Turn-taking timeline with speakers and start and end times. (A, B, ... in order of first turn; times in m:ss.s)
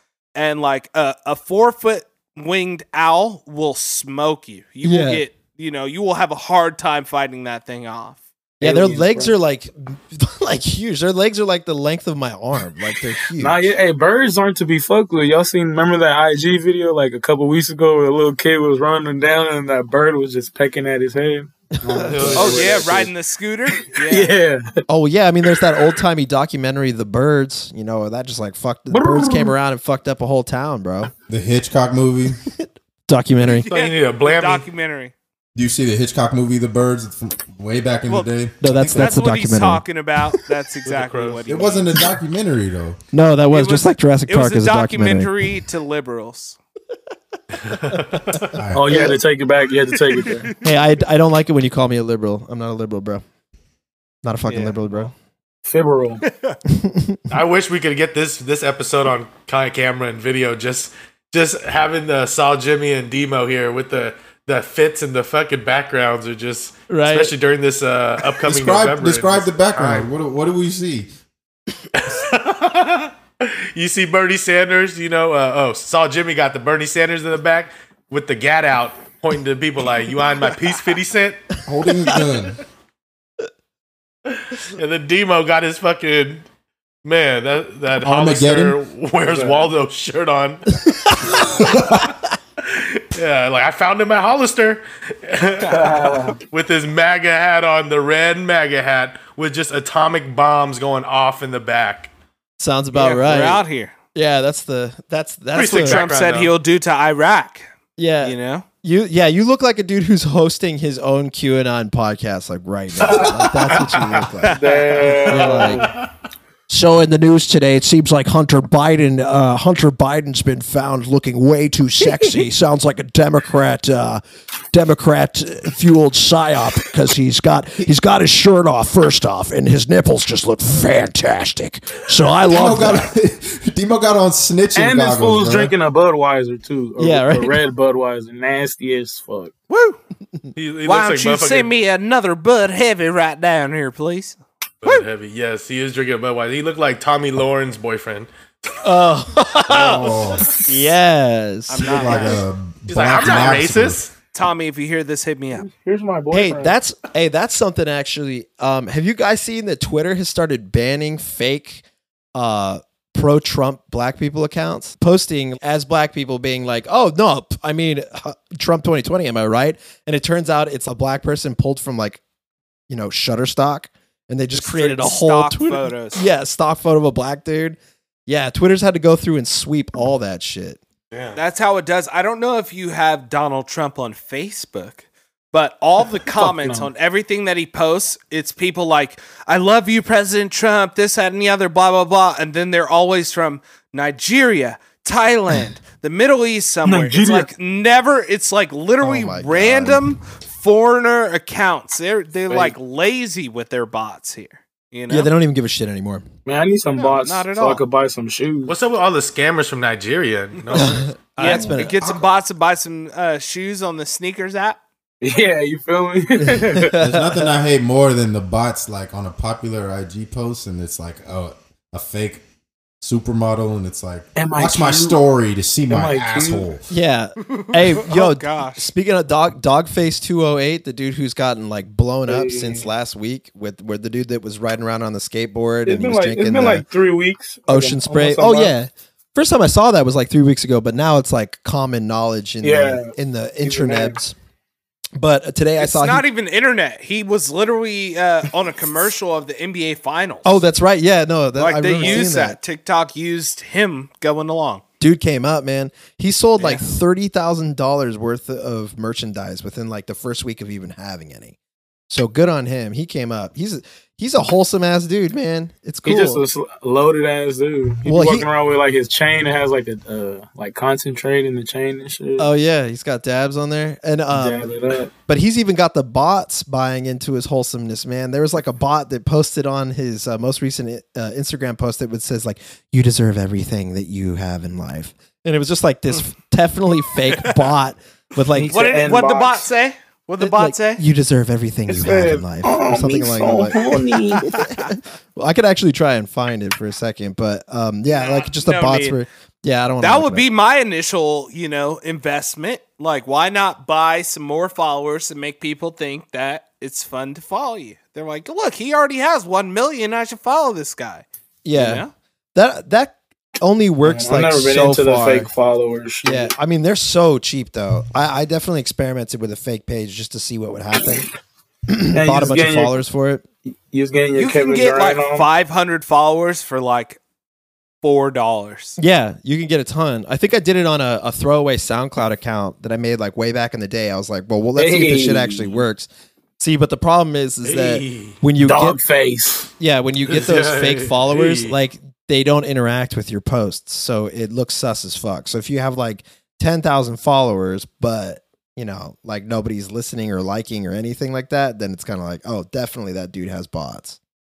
0:00.4-0:08.2 A
0:04.8-0:05.3 B
0:08.6-0:09.3 C
0:08.6-0:13.6 B
0:13.4-0:23.1 C
0:21.8-0:22.5 B
0:22.0-0:22.6 D
0:22.1-0:22.8 E
0:22.3-0:24.3 A
0:23.8-0:24.7 C
0:24.9-0:31.1 B
0:28.9-0:29.5 C
0:31.3-0:32.4 D
0:32.5-0:33.7 B
0:33.5-0:35.1 A
0:33.6-0:34.7 E
0:35.6-0:39.2 D
0:38.1-0:41.9 A
0:38.6-0:39.8 B
0:40.8-0:41.5 E
0:41.5-0:43.0 D
0:43.1-0:45.5 B
0:43.5-0:46.6 A
0:47.6-0:48.6 E
0:47.9-0:48.4 B
0:48.6-0:49.1 D
0:48.7-0:50.5 C
0:50.1-0:50.7 A
0:50.6-0:53.2 B
0:54.2-0:55.1 B
0:54.5-0:55.1 A
0:55.6-0:56.2 C
0:56.2-0:56.6 A
0:56.7-0:57.2 B
0:57.3-1:10.1 E
1:06.9-1:07.3 B
1:08.4-1:11.1 D
1:11.9-1:21.4 E
1:21.6-1:22.6 D
1:24.3-1:26.4 E
1:27.0-1:30.8 E
1:28.0-1:28.8 D
1:29.3-1:29.7 C
1:30.9-1:31.3 B
1:31.3-1:32.1 D
1:32.6-1:42.1 E
1:35.7-1:36.4 C
1:42.6-1:43.6 B
1:42.9-1:43.9 A
1:44.2-1:46.0 B
1:45.5-1:46.6 E
1:45.7-1:47.7 A
1:48.0-1:54.6 B
1:48.2-1:48.7 A
1:53.1-1:54.3 E
1:54.4-1:55.9 C
1:54.4-1:55.2 A
1:55.2-1:56.1 E
1:55.3-1:55.9 B
1:56.7-2:13.1 B
2:12.5-2:15.8 D
2:14.8-2:19.5 C
2:17.0-2:17.6 B
2:19.7-2:20.0 A
2:20.6-2:21.7 E
2:20.8-2:25.0 A
2:24.8-2:28.7 E
2:28.8-2:32.4 B
2:29.7-2:30.5 D
2:31.7-2:32.4 A
2:31.8-2:34.0 D
2:32.9-2:34.1 E
2:34.3-2:35.7 A
2:35.6-2:36.8 C
2:36.3-2:41.8 B
2:42.4-2:52.2 B
2:52.9-3:00.8 B
2:54.5-2:56.2 A
3:01.1-3:01.4 E
3:01.4-3:25.3 A
3:06.3-3:06.9 C
3:16.8-3:17.5 C
3:19.0-3:20.1 B
3:22.5-3:22.8 C
3:25.1-3:26.2 B
3:26.5-3:28.8 C
3:26.9-3:27.8 A
3:28.7-3:31.1 E
3:30.7-3:32.0 B
3:31.4-3:34.8 A
3:31.4-3:31.8 C
3:32.0-3:32.3 D
3:35.2-3:37.0 C
3:36.4-3:37.6 B
3:37.0-3:42.4 D
3:43.0-3:46.9 D
3:44.4-3:45.2 C
3:45.9-3:46.7 C
3:46.9-3:56.8 B
3:47.4-3:48.9 A
3:52.3-3:52.9 C
3:55.9-3:58.7 C
3:57.7-4:04.4 B
4:02.6-4:04.2 C
4:05.2-4:06.3 B
4:05.8-4:10.6 A
4:10.4-4:12.6 B
4:11.6-4:14.8 A
4:12.0-4:12.3 C
4:15.0-4:21.6 B
4:16.6-4:16.8 A
4:22.1-4:26.4 B
4:26.0-4:32.5 C
4:28.0-4:28.5 B
4:32.4-4:34.7 B
4:34.3-4:35.1 C
4:35.3-4:49.0 B
4:48.5-4:49.7 C
4:48.7-4:51.0 A
4:50.4-5:00.5 B
4:51.9-4:54.5 C
4:54.5-4:54.9 A
4:58.1-4:59.2 A
5:00.0-5:12.1 A
5:11.6-5:15.5 B
5:14.0-5:16.5 C
5:16.2-5:21.3 B
5:21.9-5:23.4 B
5:22.1-5:22.9 C
5:23.9-5:25.5 C
5:24.4-5:27.2 A
5:28.0-5:29.0 A
5:29.0-5:36.1 B
5:34.8-5:35.8 C
5:36.6-5:39.0 B
5:37.6-5:38.4 E
5:38.6-5:39.7 C
5:39.8-5:54.2 B
5:40.2-5:41.8 E